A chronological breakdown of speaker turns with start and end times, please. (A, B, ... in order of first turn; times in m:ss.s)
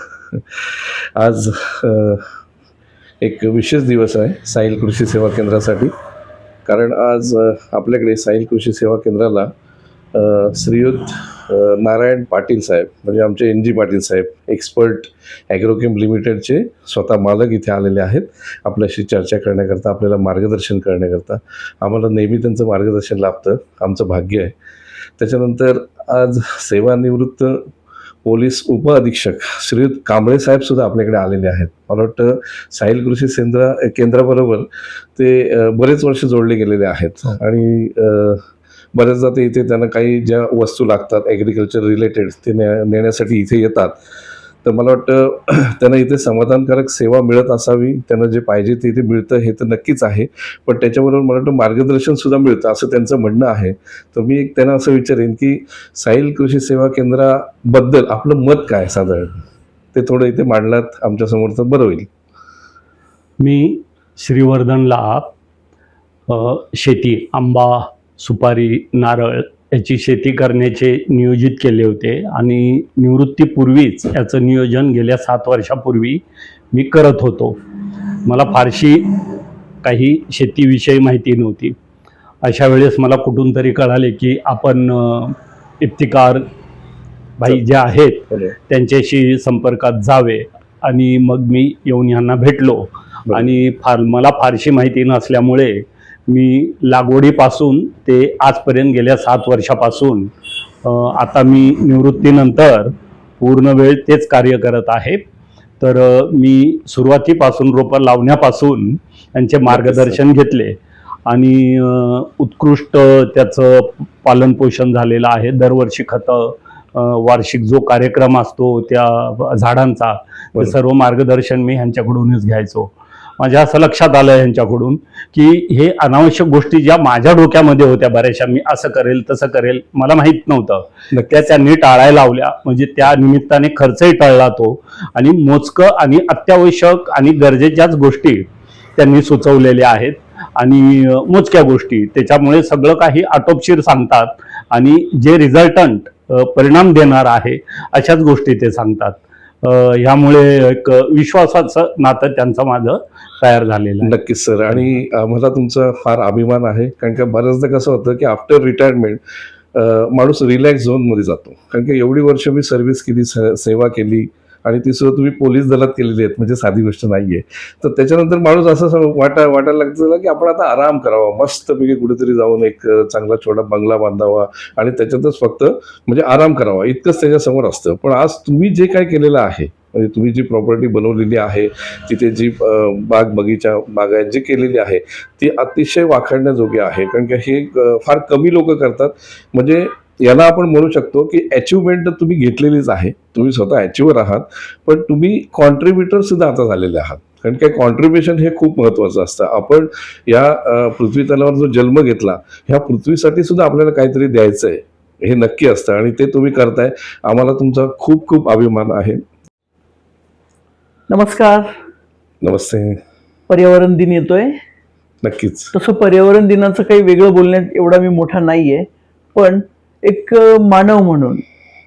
0:00.3-0:00.6 A
0:01.2-0:02.2 A
0:03.2-0:05.9 A
0:06.6-0:09.5 A
0:10.1-0:24.5 A
0:25.2-0:27.7 A
0:28.2-0:38.4 A
0:38.9-0:43.9 A
0:44.6-0:59.3 A
0:59.9-1:02.1 A
1:03.4-1:05.3 B
1:06.3-1:16.2 B
1:16.7-1:17.6 B
1:18.2-1:19.1 B
1:19.8-1:21.7 B
1:22.4-1:26.4 B
1:27.4-1:40.3 B
1:40.8-1:45.2 B
1:45.8-2:18.4 B
1:49.7-1:50.2 A
2:11.1-2:11.4 A
2:19.0-2:34.2 B
2:34.0-2:39.2 A
2:39.7-3:29.2 A
3:31.1-3:31.7 C
3:32.4-3:33.0 A
3:33.5-3:34.5 C
3:35.2-3:35.7 A
3:35.7-3:41.4 C